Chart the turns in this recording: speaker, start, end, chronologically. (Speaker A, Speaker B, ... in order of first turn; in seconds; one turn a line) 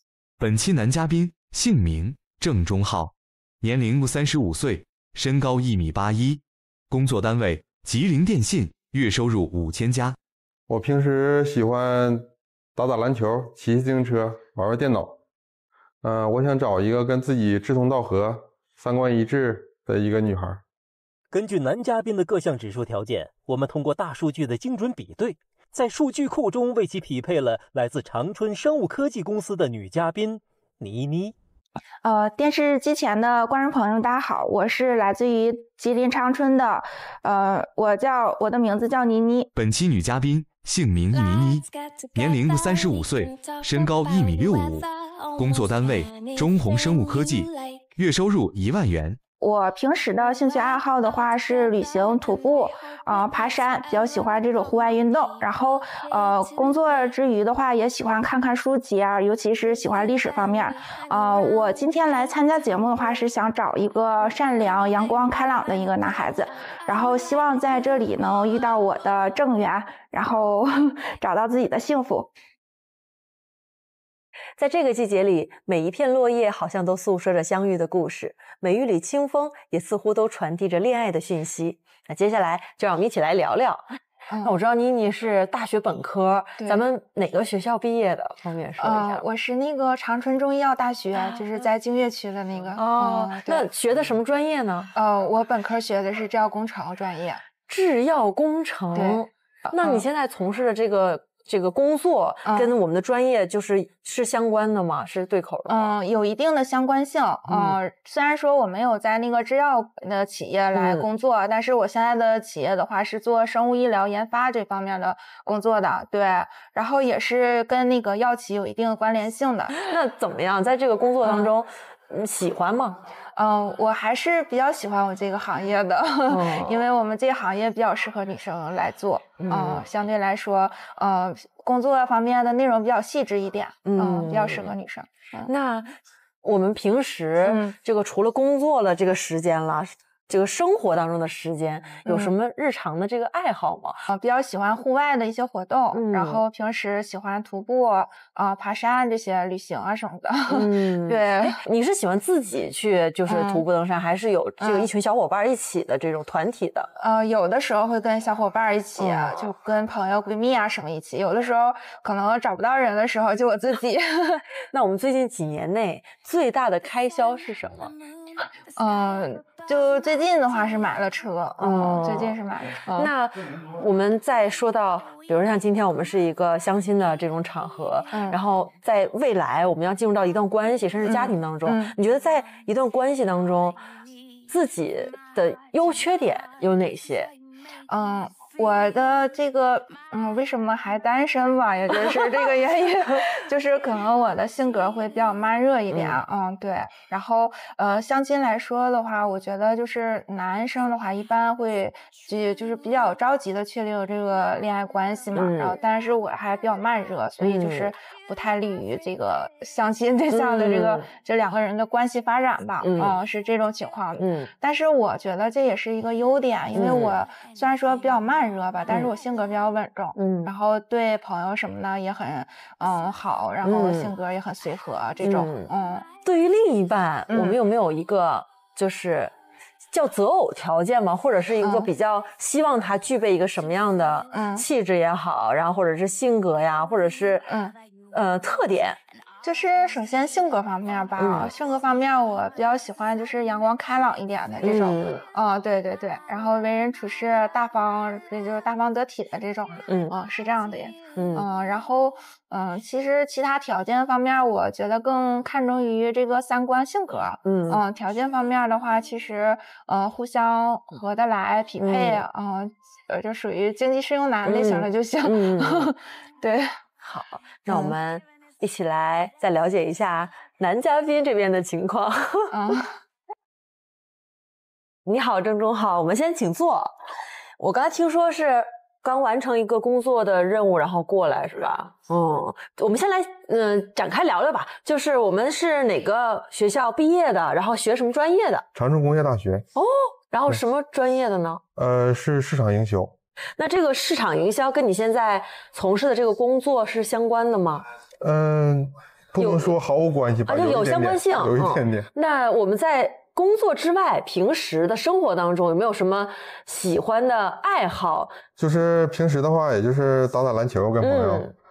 Speaker A: 0.4-10.2
Speaker B: 10.7-15.2
Speaker B: 16.0-20.6
Speaker C: 21.3-31.3
Speaker D: 32.0-39.5
Speaker A: 39.5-49.2
Speaker D: 49.4-72.3
Speaker E: 74.6-83.8
Speaker D: 84.3-84.5
Speaker E: 84.4-89.2
Speaker D: 86.6-86.8
Speaker D: 88.8-93.7
Speaker E: 92.8-94.9
Speaker D: 94.9-97.4
Speaker E: 97.7-105.9
Speaker D: 98.9-100.0
Speaker D: 102.4-102.7
Speaker D: 105.7-119.8
Speaker E: 107.5-107.8
Speaker E: 110.7-111.0
Speaker E: 119.7-123.0
Speaker D: 121.2-121.5
Speaker D: 123.3-135.5
Speaker E: 126.3-126.8
Speaker E: 129.4-129.8
Speaker E: 133.8-134.7
Speaker E: 135.5-144.0
Speaker D: 137.4-137.8
Speaker D: 142.0-142.3
Speaker D: 144.1-151.6
Speaker E: 145.9-146.4
Speaker E: 150.5-156.9
Speaker D: 153.3-153.6
Speaker D: 154.6-154.9
Speaker D: 157.0-164.4
Speaker E: 159.0-159.3
Speaker E: 164.7-167.9
Speaker D: 168.8-173.1
Speaker E: 171.6-172.3
Speaker E: 172.9-183.8
Speaker D: 178.1-178.4
Speaker D: 181.0-181.9
Speaker E: 184.5-187.3
Speaker D: 187.9-226.1
Speaker E: 195.9-196.2
Speaker E: 205.3-205.8
Speaker E: 207.4-207.9
Speaker E: 210.3-211.1
Speaker E: 212.8-213.2
Speaker E: 214.2-214.5
Speaker E: 216.7-217.2
Speaker E: 220.2-220.5
Speaker E: 223.6-224.1
Speaker E: 225.2-225.7
Speaker E: 226.2-229.3
Speaker D: 227.3-227.6
Speaker E: 229.9-237.5
Speaker D: 231.6-231.9
Speaker D: 234.3-234.7
Speaker D: 237.5-237.7
Speaker E: 238.1-239.0
Speaker D: 239.4-266.8
Speaker E: 241.2-241.5
Speaker E: 244.6-245.2
Speaker E: 249.9-250.1
Speaker E: 251.2-251.4
Speaker E: 257.4-257.8
Speaker E: 261.8-262.2
Speaker E: 264.4-265.9
Speaker E: 267.0-272.5
Speaker D: 267.7-267.9
Speaker D: 272.5-272.9
Speaker E: 275.1-276.9
Speaker E: 277.6-288.6
Speaker B: 288.7-289.6
Speaker E: 289.8-291.6
Speaker B: 291.8-293.1
Speaker E: 293.6-297.8
Speaker B: 298.2-302.1
Speaker E: 299.4-299.7
Speaker E: 300.5-308.4
Speaker B: 308.6-311.5
Speaker E: 311.0-311.5